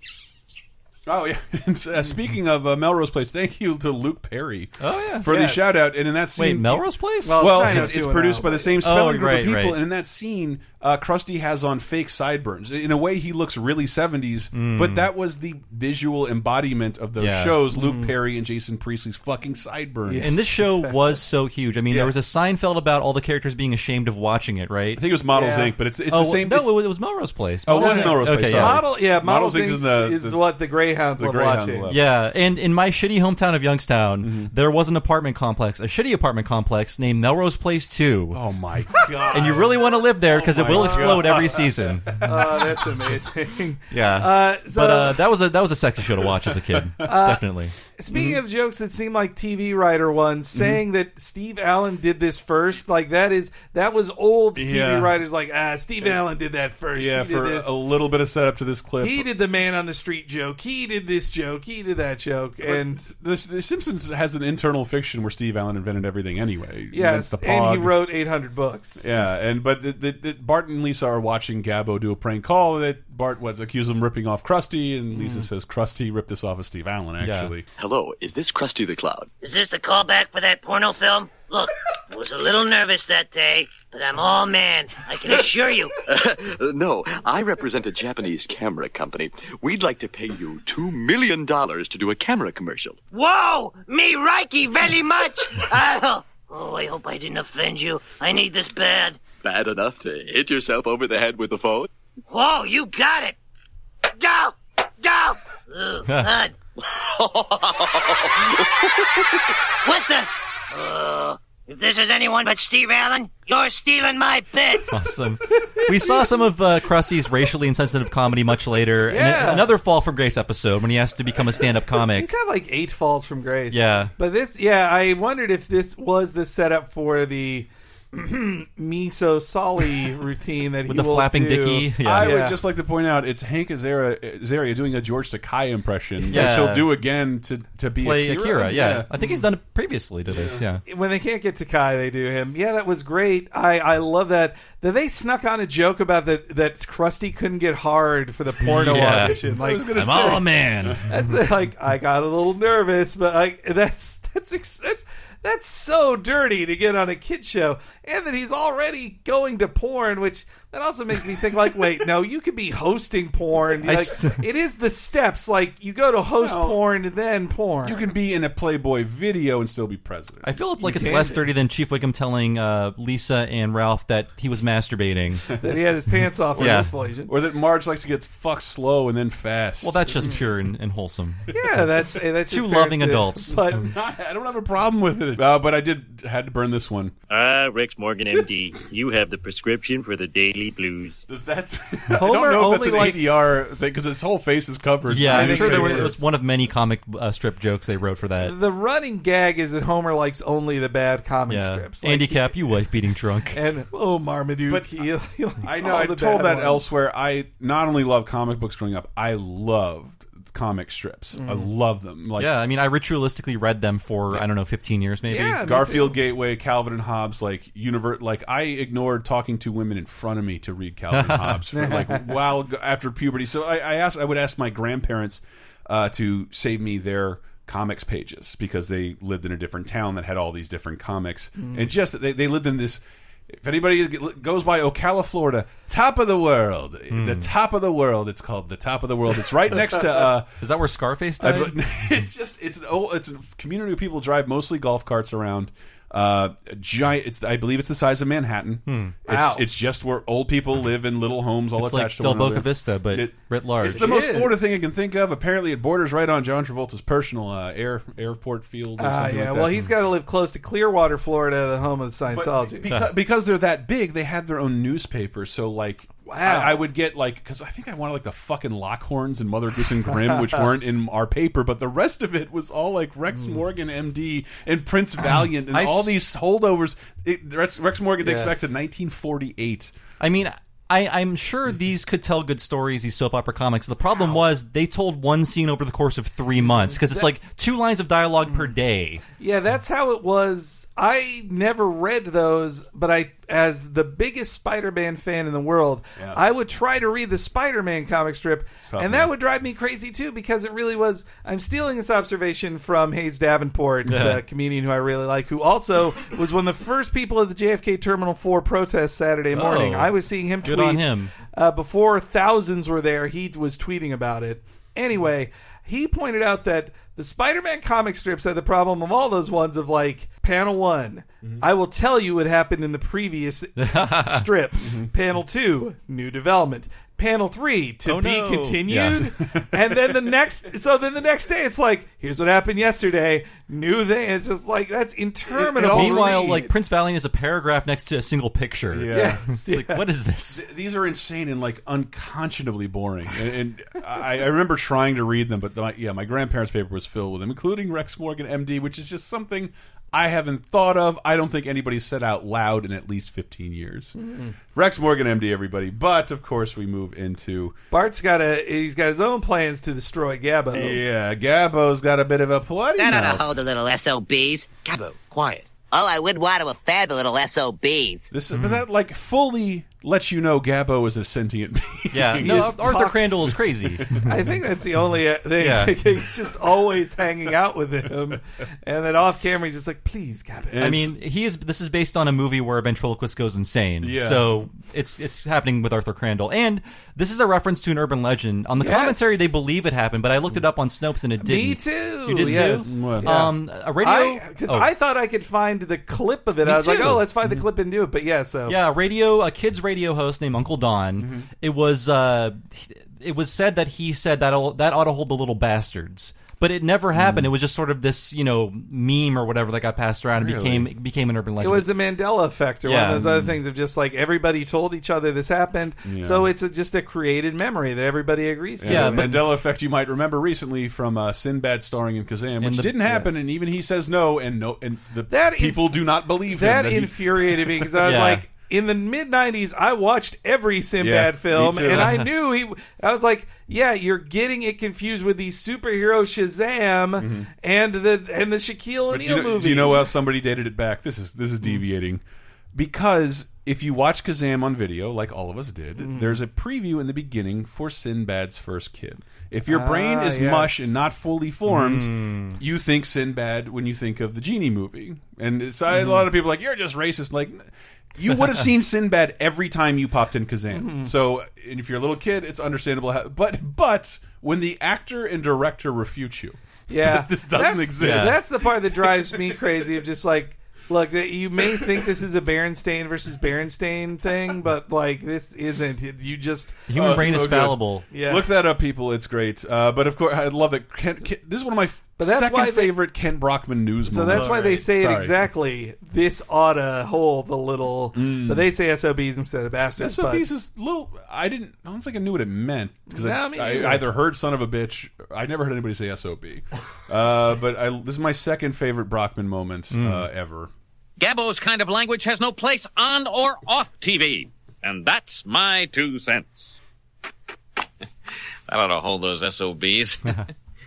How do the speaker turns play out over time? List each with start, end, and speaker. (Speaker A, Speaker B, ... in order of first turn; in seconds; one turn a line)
Speaker A: 1.1-20.3
Speaker B: 4.8-5.3
Speaker C: 5.3-5.8
Speaker B: 6.3-8.0
Speaker C: 7.2-8.8
Speaker B: 8.8-9.8
Speaker B: 14.5-15.1
Speaker B: 17.2-17.6
Speaker C: 17.7-18.1
Speaker C: 20.1-21.2
Speaker B: 20.2-25.0
Speaker A: 24.9-26.7
Speaker C: 25.3-25.7
Speaker B: 26.1-28.8
Speaker A: 27.6-30.4
Speaker C: 27.7-31.9
Speaker A: 31.2-32.0
Speaker B: 31.9-38.4
Speaker A: 34.2-34.5
Speaker A: 38.3-42.5
Speaker C: 39.0-39.4
Speaker B: 39.3-42.3
Speaker C: 40.5-41.6
Speaker C: 42.2-45.2
Speaker B: 43.9-47.7
Speaker A: 46.3-47.0
Speaker C: 47.0-47.4
Speaker C: 47.9-57.7
Speaker A: 48.1-48.4
Speaker A: 50.5-50.8
Speaker A: 54.5-55.1
Speaker A: 56.9-59.3
Speaker C: 59.0-63.1
Speaker A: 62.6-67.9
Speaker C: 66.9-69.0
Speaker A: 69.0-77.7
Speaker C: 75.1-75.5
Speaker B: 77.2-77.5
Speaker D: 77.8-79.3
Speaker E: 79.4-86.0
Speaker D: 86.1-93.0
Speaker E: 93.1-99.2
Speaker D: 99.4-101.9
Speaker E: 102.3-103.3
Speaker E: 104.2-106.5
Speaker D: 107.2-108.5
Speaker E: 109.8-114.9
Speaker B: 114.9-122.3
Speaker C: 119.1-119.7
Speaker C: 122.1-132.6
Speaker B: 123.7-124.1
Speaker B: 130.9-132.4
Speaker A: 132.0-139.1
Speaker B: 136.3-136.9
Speaker B: 138.0-140.8
Speaker A: 140.3-140.6
Speaker C: 140.9-150.3
Speaker B: 148.6-149.4
Speaker A: 148.8-151.0
Speaker B: 150.1-150.9
Speaker C: 151.0-168.0
Speaker B: 163.8-164.4
Speaker A: 166.4-166.8
Speaker A: 167.8-170.5
Speaker B: 170.4-175.6
Speaker C: 170.8-171.4
Speaker C: 175.6-177.3
Speaker B: 176.6-176.9
Speaker A: 177.3-180.4
Speaker B: 179.8-181.6
Speaker C: 181.5-183.9
Speaker B: 182.5-183.8
Speaker A: 183.7-187.1
Speaker F: 187.3-191.2
Speaker A: 191.3-196.2
Speaker C: 192.2-193.5
Speaker B: 195.1-198.5
Speaker C: 195.2-196.2
Speaker C: 198.4-202.5
Speaker B: 201.5-203.6
Speaker C: 203.5-206.9
Speaker A: 204.7-205.1
Speaker A: 205.6-212.5
Speaker C: 211.3-211.7
Speaker B: 212.4-215.6
Speaker C: 215.3-216.2
Speaker A: 215.6-240.5
Speaker B: 221.1-221.6
Speaker C: 221.7-222.3
Speaker C: 231.6-231.9
Speaker B: 237.1-237.5
Speaker B: 240.6-241.8
Speaker A: 241.4-259.9
Speaker B: 248.9-249.2
Speaker C: 249.3-249.6
Speaker B: 251.8-254.2
Speaker C: 253.8-254.8
Speaker C: 259.0-262.9
Speaker A: 262.3-279.9
Speaker B: 262.9-263.1
Speaker C: 266.2-266.9
Speaker C: 270.1-270.6
Speaker B: 275.7-276.2
Speaker C: 278.2-278.6
Speaker B: 280.2-289.2
Speaker C: 286.8-287.3
Speaker C: 289.4-336.7
Speaker A: 296.2-296.4
Speaker A: 298.9-299.3
Speaker B: 304.1-304.4
Speaker B: 309.5-311.3
Speaker B: 323.8-324.4
Speaker A: 324.8-325.1
Speaker B: 328.1-329.3
Speaker A: 329.4-330.2
Speaker A: 335.5-336.6
Speaker B: 335.8-340.6
Speaker A: 338.9-339.4
Speaker C: 339.1-340.0
Speaker A: 340.5-354.1
Speaker C: 354.1-354.5
Speaker A: 354.7-357.8
Speaker C: 357.9-361.0
Speaker A: 360.7-363.4
Speaker G: 363.0-368.3
Speaker A: 368.3-372.9
Speaker B: 368.5-368.8
Speaker B: 372.1-374.3
Speaker C: 372.4-373.2
Speaker A: 374.0-374.2
Speaker C: 374.2-380.9
Speaker B: 375.6-376.0
Speaker A: 380.7-381.1
Speaker B: 380.8-394.9
Speaker A: 384.0-384.6
Speaker C: 388.8-389.4
Speaker C: 391.4-398.8
Speaker A: 392.5-393.3
Speaker B: 396.6-397.2
Speaker B: 398.7-411.9
Speaker A: 401.2-401.5
Speaker A: 407.1-407.5
Speaker A: 410.4-410.9
Speaker C: 411.6-419.4
Speaker B: 412.8-413.3
Speaker A: 413.1-413.5
Speaker A: 416.0-416.5
Speaker A: 418.8-428.0
Speaker B: 418.8-419.4
Speaker B: 422.6-423.1
Speaker C: 425.3-440.1
Speaker B: 428.0-428.4
Speaker A: 431.0-432.2
Speaker B: 431.9-432.3
Speaker A: 437.2-437.5
Speaker A: 439.1-442.2
Speaker A: 442.7-468.4
Speaker C: 446.0-446.4
Speaker C: 449.7-451.0
Speaker B: 451.6-452.6
Speaker C: 460.7-461.1
Speaker C: 466.9-476.8
Speaker B: 468.0-468.4
Speaker A: 469.1-469.6
Speaker B: 476.9-478.0
Speaker A: 476.9-485.4
Speaker C: 478.1-478.5
Speaker C: 482.2-483.0
Speaker C: 484.1-490.5
Speaker A: 488.1-488.6
Speaker A: 490.0-500.7
Speaker C: 493.1-494.1
Speaker B: 499.9-500.2
Speaker H: 501.2-506.8
Speaker H: 508.7-510.4